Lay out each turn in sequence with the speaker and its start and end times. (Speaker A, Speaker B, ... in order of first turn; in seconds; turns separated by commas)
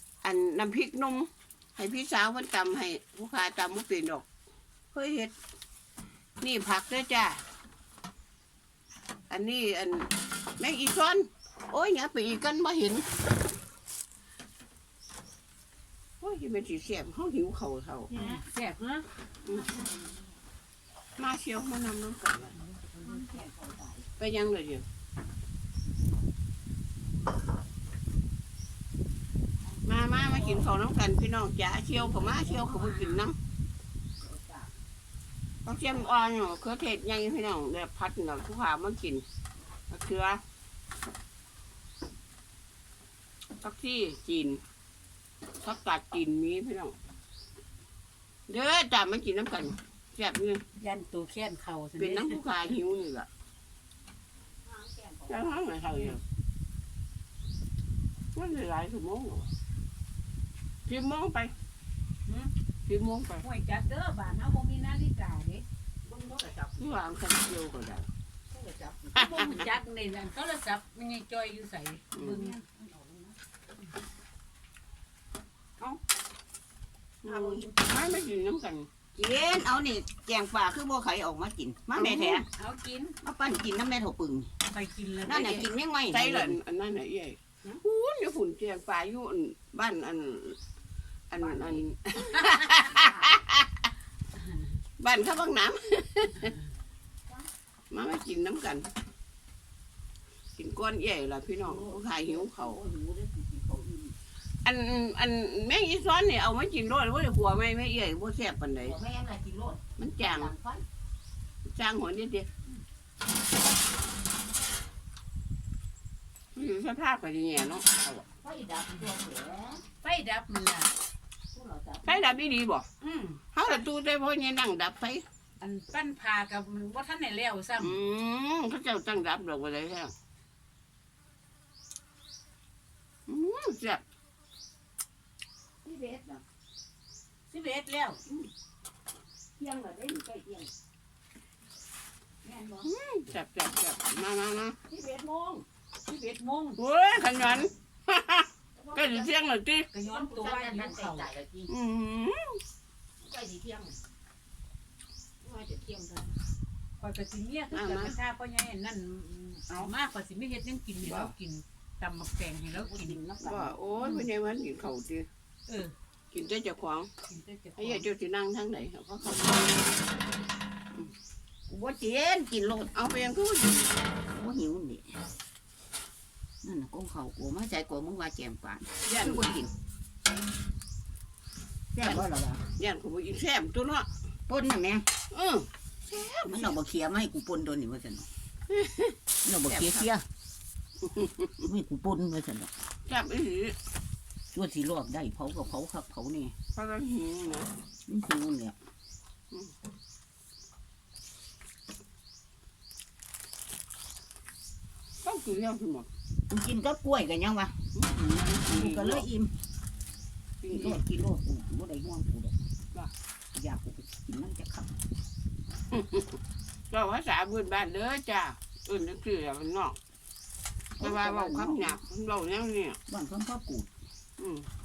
Speaker A: 0.2-4.3, Speaker A: 4.9-5.3, Speaker A: 6.4-7.4, Speaker A: 9.3-13.1, Speaker A: 16.2-18.1, Speaker B: 18.1-18.4, Speaker C: 18.1-19.1, Speaker A: 19.5-19.7, Speaker B: 19.5-20.4, Speaker A: 21.2-22.6, Speaker C: 22.6-23.4, Speaker B: 23.0-24.1, Speaker A: 24.2-24.9, Speaker B: 29.6-30.8, Speaker A: 29.9-33.4, Speaker B: 31.9-33.3, Speaker B: 34.2-34.7, Speaker A: 35.6-39.2, Speaker A: 39.9-40.4, Speaker A: 43.6-44.6, Speaker A: 45.6-47.0, Speaker A: 48.5-50.6, Speaker C: 50.8-52.7, Speaker A: 52.0-53.3, Speaker B: 54.6-55.9, Speaker A: 55.3-56.2, Speaker A: 58.4-59.5, Speaker A: 60.9-61.5, Speaker C: 62.3-62.5, Speaker A: 62.9-63.5, Speaker C: 63.4-65.7, Speaker B: 66.0-67.0, Speaker A: 66.8-68.1, Speaker B: 68.5-69.6, Speaker A: 69.2-69.7, Speaker C: 69.2-72.6, Speaker A: 72.1-72.4, Speaker B: 72.3-73.3, Speaker B: 77.2-77.9, Speaker A: 77.2-78.9, Speaker B: 79.2-82.5, Speaker A: 82.0-82.5, Speaker C: 82.5-83.2, Speaker B: 83.2-84.5, Speaker C: 84.7-85.6, Speaker B: 85.2-86.6, Speaker A: 85.3-90.6, Speaker A: 91.3-93.8, Speaker B: 91.3-91.8, Speaker C: 92.4-92.8, Speaker B: 92.9-93.4, Speaker A: 95.0-96.6, Speaker A: 97.9-98.9, Speaker A: 100.6-102.8, Speaker B: 101.6-104.2, Speaker A: 104.6-109.0, Speaker B: 108.8-110.8, Speaker A: 110.0-110.5, Speaker A: 111.7-112.5, Speaker A: 116.5-118.3, Speaker B: 118.4-119.9, Speaker C: 120.0-120.9, Speaker B: 121.5-122.4, Speaker A: 122.1-122.9, Speaker C: 123.0-123.5, Speaker A: 123.5-125.2, Speaker C: 125.6-128.0, Speaker A: 127.8-130.1, Speaker A: 133.3-134.0, Speaker B: 135.8-136.4, Speaker C: 137.5-138.2, Speaker B: 139.6-140.7, Speaker B: 142.4-142.9, Speaker A: 142.8-144.8, Speaker B: 144.9-146.2, Speaker C: 146.1-146.8, Speaker A: 146.8-149.9, Speaker B: 148.8-149.4, Speaker C: 149.9-151.3, Speaker B: 150.0-151.7, Speaker A: 151.7-152.6, Speaker B: 153.2-154.0, Speaker B: 155.4-156.3, Speaker C: 157.0-163.2, Speaker A: 157.7-158.2, Speaker A: 161.0-161.3, Speaker B: 162.7-163.9, Speaker A: 163.4-165.3, Speaker C: 165.7-165.9, Speaker A: 166.3-167.1, Speaker C: 167.3-168.1, Speaker A: 167.8-170.0, Speaker B: 171.7-172.9, Speaker A: 172.9-173.9, Speaker B: 174.3-175.1, Speaker B: 176.6-179.7, Speaker A: 179.0-179.5, Speaker B: 181.9-182.7, Speaker A: 182.0-184.1, Speaker B: 184.5-185.1, Speaker A: 185.3-186.8, Speaker B: 186.4-188.3, Speaker A: 188.7-190.1, Speaker B: 189.4-190.2, Speaker A: 191.1-191.6, Speaker B: 191.6-192.7, Speaker A: 193.1-193.8, Speaker B: 194.5-196.5, Speaker A: 196.7-197.7, Speaker B: 198.1-198.8, Speaker A: 205.2-206.1, Speaker B: 206.5-207.8, Speaker A: 207.9-209.3, Speaker B: 208.6-209.5, Speaker A: 210.6-211.0, Speaker B: 210.7-212.6, Speaker B: 213.5-214.9, Speaker A: 215.9-216.4, Speaker A: 216.9-220.0, Speaker B: 220.9-222.0, Speaker A: 221.0-223.0, Speaker B: 223.1-223.9, Speaker A: 224.4-224.7